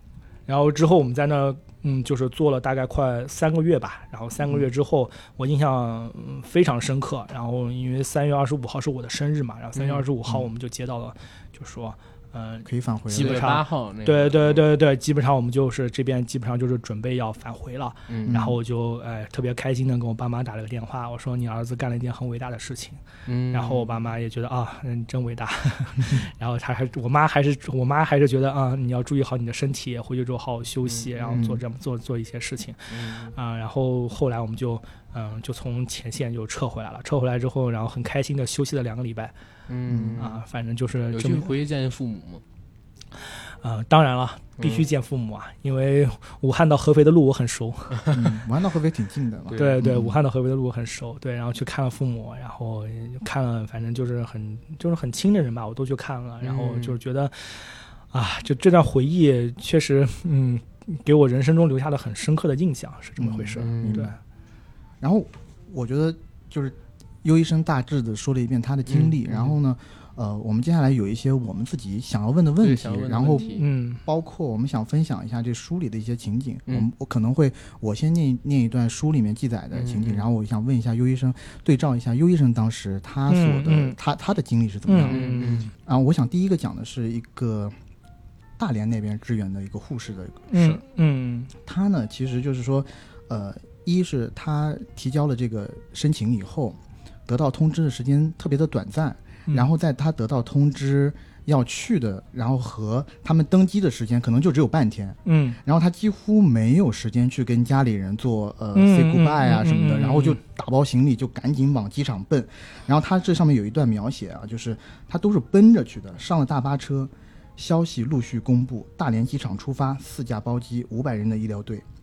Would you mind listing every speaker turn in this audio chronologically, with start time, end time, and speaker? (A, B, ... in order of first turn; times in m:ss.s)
0:00.5-0:39.3 A
0:04.4-0:04.7 B
0:09.8-0:10.0 C
0:12.6-0:13.5 B
0:13.1-0:14.7 C
0:18.1-0:18.4 C
0:18.3-0:18.6 B
0:23.3-0:24.0 C
0:30.8-0:31.6 C
0:31.3-0:31.6 B
0:32.9-0:33.3 C
0:39.7-0:40.4 C
0:39.9-0:40.2 B
0:40.2-0:41.5 A
0:41.1-0:42.4 C
0:43.6-0:48.1 A
0:44.6-0:44.9 C
0:48.1-0:50.2 B
0:49.5-0:49.9 C
0:49.6-1:04.2 A
0:56.4-0:57.0 C
1:03.2-1:04.1 B
1:03.6-1:04.1 C
1:05.0-1:13.5 B
1:08.9-1:09.6 C
1:12.6-1:13.7 C
1:13.4-1:14.0 A
1:14.1-1:27.7 B
1:19.7-1:20.2 C
1:23.3-1:24.0 A
1:24.9-1:25.7 A
1:25.1-1:25.7 C
1:28.6-1:30.8 B
1:30.5-1:31.5 A
1:31.7-2:01.9 B
1:45.3-1:45.6 A
1:48.8-1:50.4 A